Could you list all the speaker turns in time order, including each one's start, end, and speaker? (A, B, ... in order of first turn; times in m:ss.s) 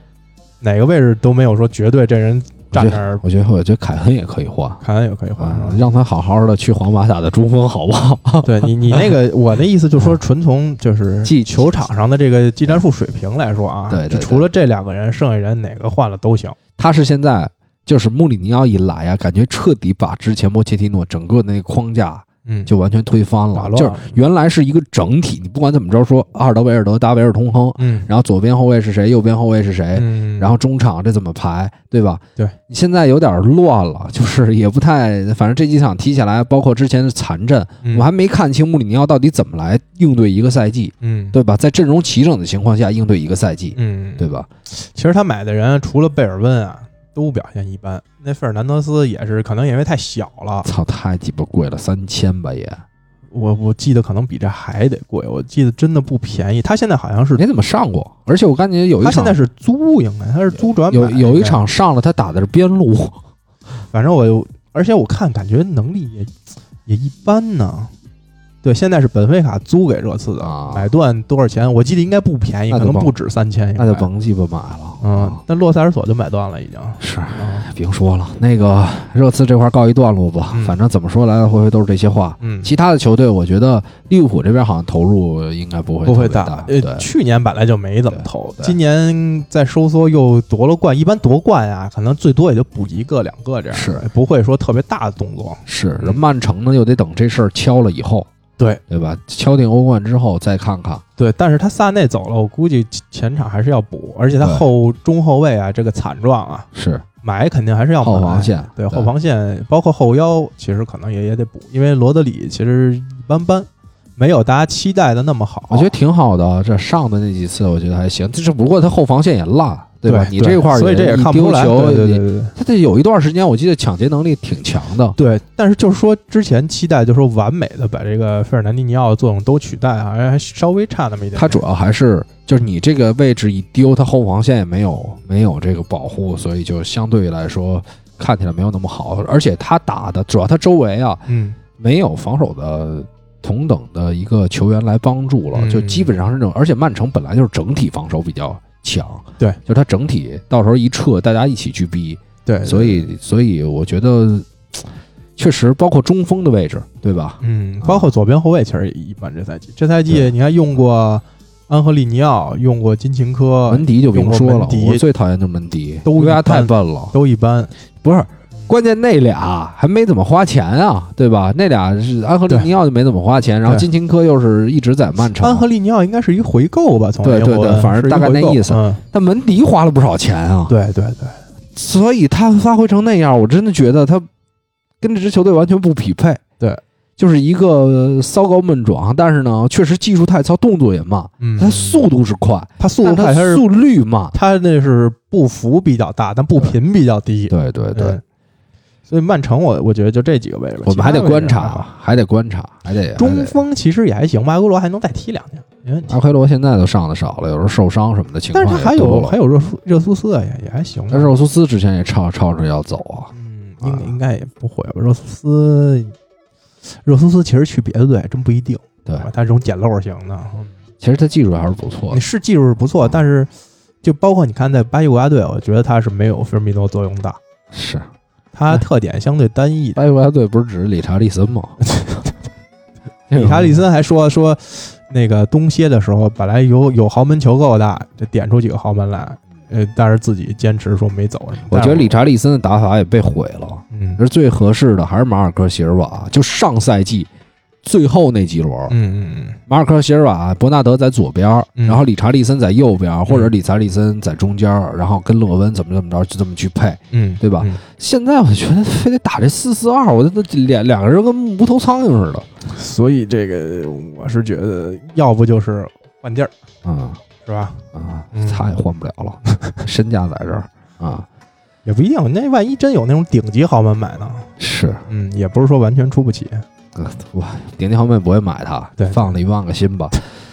0:00.6-0:03.2 A
0:02.7-0:04.8 B
0:04.8-0:05.9 A
0:05.4-0:09.1 B
0:08.4-0:16.6 A
0:11.2-0:11.8 B
0:13.9-0:14.5 B
0:16.8-0:44.5 B
0:22.5-0:22.7 A
0:23.5-0:24.2 A
0:27.8-0:28.1 A
0:29.9-0:30.5 A
0:37.8-0:38.1 A
0:41.0-0:41.4 A
0:43.8-0:50.7 A
0:50.6-0:52.8 B
0:53.3-0:57.4 A
0:57.4-0:59.4 B
0:59.0-1:01.6 A
1:00.6-1:03.2 B
1:03.9-1:06.3 A
1:06.9-1:07.9 A
1:08.6-1:14.1 A
1:10.4-1:10.9 B
1:12.7-1:13.1 B
1:13.8-1:15.4 B
1:15.0-1:17.7 A
1:17.0-1:27.1 B
1:20.5-1:20.8 A
1:22.4-1:22.7 A
1:26.0-1:36.2 A
1:28.1-1:28.8 B
1:33.7-1:34.0 B
1:35.7-1:38.3 B
1:38.6-1:38.8 A
1:38.9-1:41.0 B
1:41.2-1:46.7 A
1:46.7-1:47.0 B
1:47.2-1:55.9 A
1:48.0-1:49.1 B
1:55.7-2:05.2 B
2:00.1-2:02.6 A
2:05.2-2:11.6 A
2:11.4-2:21.2 B
2:21.3-2:21.6 A
2:21.8-2:38.1 B
2:25.5-2:26.1 A
2:32.5-2:33.1 A
2:37.4-2:45.0 A
2:43.7-2:47.1 B
2:46.0-2:47.7 A
2:48.0-2:55.6 B
2:55.4-2:59.0 A
2:57.2-3:00.7 B
3:00.7-3:01.4 A
3:01.8-3:04.3 B
3:05.0-3:06.4 B
3:07.2-3:14.4 B
3:11.4-3:12.1 A
3:12.8-3:13.6 A
3:14.3-3:18.2 A
3:17.5-3:18.2 B
3:19.1-3:21.9 A
3:20.8-3:23.6 B
3:23.2-3:26.2 A
3:26.1-3:29.4 B
3:28.5-3:31.3 A
3:31.1-3:34.1 B
3:33.4-3:36.2 A
3:36.9-3:40.7 A
3:41.0-3:42.2 B
3:42.1-3:43.5 A
3:44.0-3:47.4 A
3:47.7-3:48.1 B
3:48.5-3:50.0 A
3:50.0-3:51.8 B
3:51.9-3:52.3 A
3:53.3-3:53.8 B
3:53.3-4:02.2 A
4:01.7-4:07.3 B
4:03.9-4:04.2 A
4:07.8-4:09.0 B
4:08.9-4:09.6 A
4:09.7-4:22.5 B
4:17.1-4:17.8 A
4:22.7-4:26.5 A
4:26.8-4:27.2 B
4:27.4-4:28.7 A
4:27.9-4:31.3 B
4:29.4-4:29.8 A
4:31.8-4:34.5 A
4:34.6-4:35.0 B
4:35.1-4:36.6 A
4:37.0-4:40.2 B
4:39.0-4:39.4 A